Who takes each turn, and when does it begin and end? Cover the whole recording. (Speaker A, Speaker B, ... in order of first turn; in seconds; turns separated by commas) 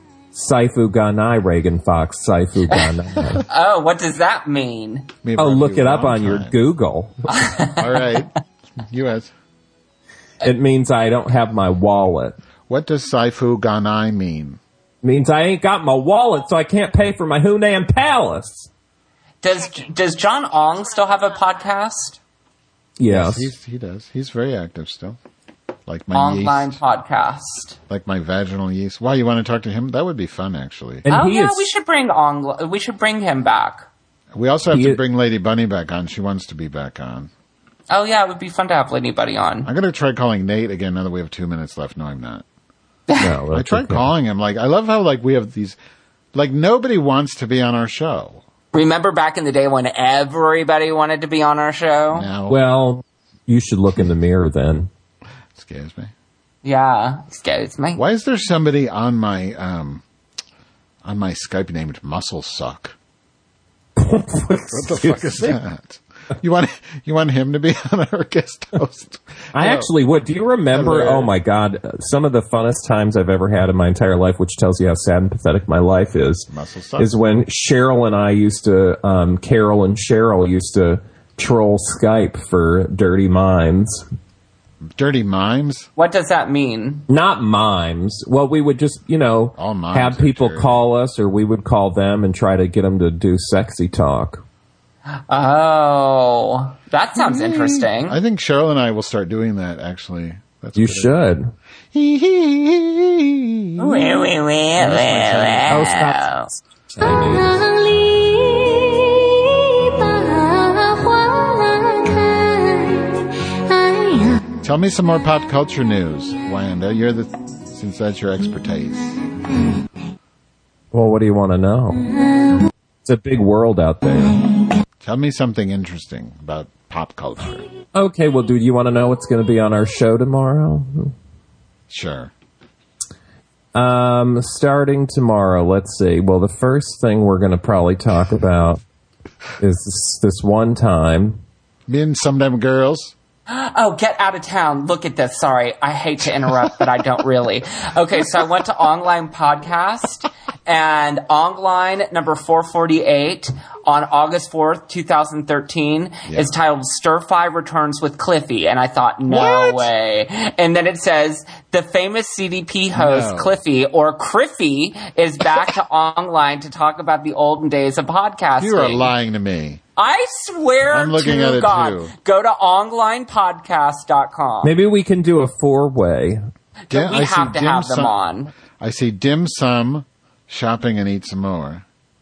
Speaker A: 0.3-3.4, Speaker B: 3.5-5.1, Speaker C: 5.2-6.6, Speaker A: 5.4-7.2, Speaker B: 7.3-8.2, Speaker C: 7.8-9.3, Speaker A: 10.4-12.4, Speaker C: 12.7-14.6, Speaker A: 15.0-18.7, Speaker B: 19.4-22.2, Speaker A: 23.0-23.5, Speaker C: 23.1-25.2, Speaker C: 25.9-26.8, Speaker B: 26.1-27.8, Speaker C: 27.9-31.1, Speaker A: 31.1-31.7, Speaker B: 31.1-33.9, Speaker C: 34.3-37.3, Speaker A: 34.7-35.0, Speaker B: 37.9-39.7, Speaker C: 39.6-42.5, Speaker A: 43.2-44.1, Speaker C: 43.5-45.8, Speaker C: 46.3-48.4, Speaker B: 48.7-52.3, Speaker C: 52.1-52.6, Speaker A: 52.5-54.9, Speaker C: 55.5-56.1, Speaker B: 56.6-58.0, Speaker C: 58.0-60.0, Speaker C: 61.0-63.0, Speaker A: 64.0-65.6, Speaker C: 64.5-69.9, Speaker A: 69.5-84.0, Speaker C: 70.7-71.3, Speaker C: 76.5-77.2, Speaker C: 84.8-85.9, Speaker B: 86.0-87.1, Speaker A: 87.1-94.4, Speaker C: 89.6-90.9, Speaker B: 95.3-98.2, Speaker C: 97.2-101.2, Speaker A: 100.8-101.5, Speaker C: 101.9-104.2, Speaker B: 103.8-106.5, Speaker C: 104.8-105.8, Speaker A: 105.7-106.3, Speaker A: 107.0-107.6, Speaker D: 107.0-114.5, Speaker C: 114.6-119.2, Speaker A: 120.9-122.0, Speaker A: 123.0-124.4, Speaker C: 125.0-127.7, Speaker A: 127.9-131.1, Speaker C: 131.9-132.3, Speaker A: 133.8-138.8, Speaker A: 139.6-141.4, Speaker C: 141.9-143.2, Speaker B: 143.5-169.1, Speaker C: 156.3-156.6, Speaker C: 159.3-159.9, Speaker C: 162.9-163.6, Speaker C: 168.6-169.8, Speaker B: 170.0-174.7, Speaker C: 170.9-172.1, Speaker A: 174.6-176.4, Speaker B: 176.9-178.5, Speaker C: 176.9-178.2, Speaker C: 178.7-181.8